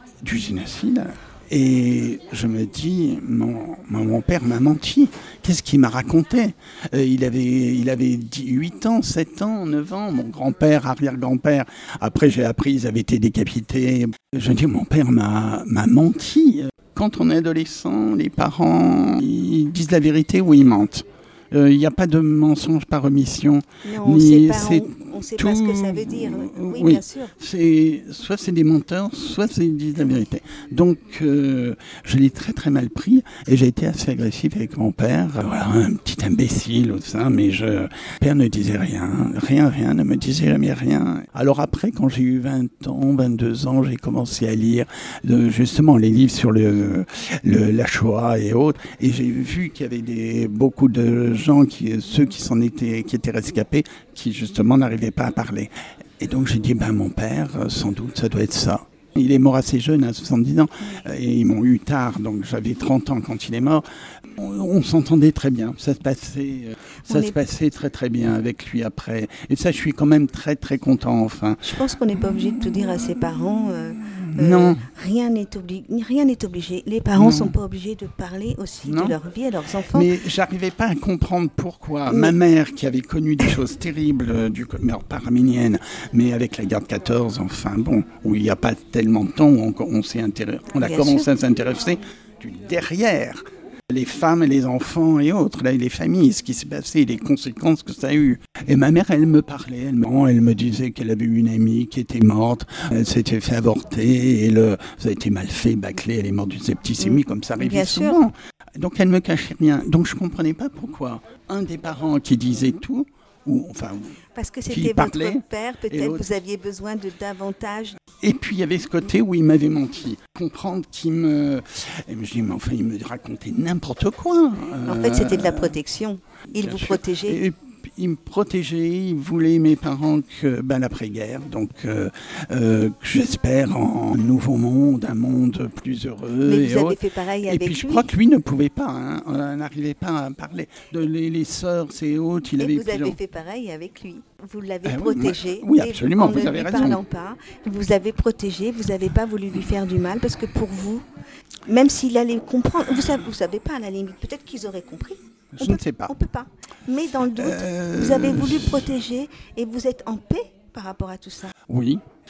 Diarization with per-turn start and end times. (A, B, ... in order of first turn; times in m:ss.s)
0:00.2-1:11.7 A
0:23.8-0:27.3 B
1:07.1-1:07.4 B
1:11.6-1:20.1 B
1:14.3-1:14.8 A
1:17.2-1:17.5 A
1:18.8-1:19.2 A
1:19.9-1:54.2 A
1:22.1-1:22.3 B
1:30.8-1:31.3 B
1:47.0-1:48.2 B
1:54.4-1:58.0 B
1:54.7-1:56.3 A
1:58.2-2:05.8 A
2:04.8-2:07.4 B
2:06.6-2:23.2 A
2:16.4-2:18.1 B
2:22.6-2:31.0 B
2:24.8-2:27.0 A
2:31.7-2:41.5 B
2:35.5-2:36.1 A
2:37.3-2:38.9 A
2:41.7-2:42.0 A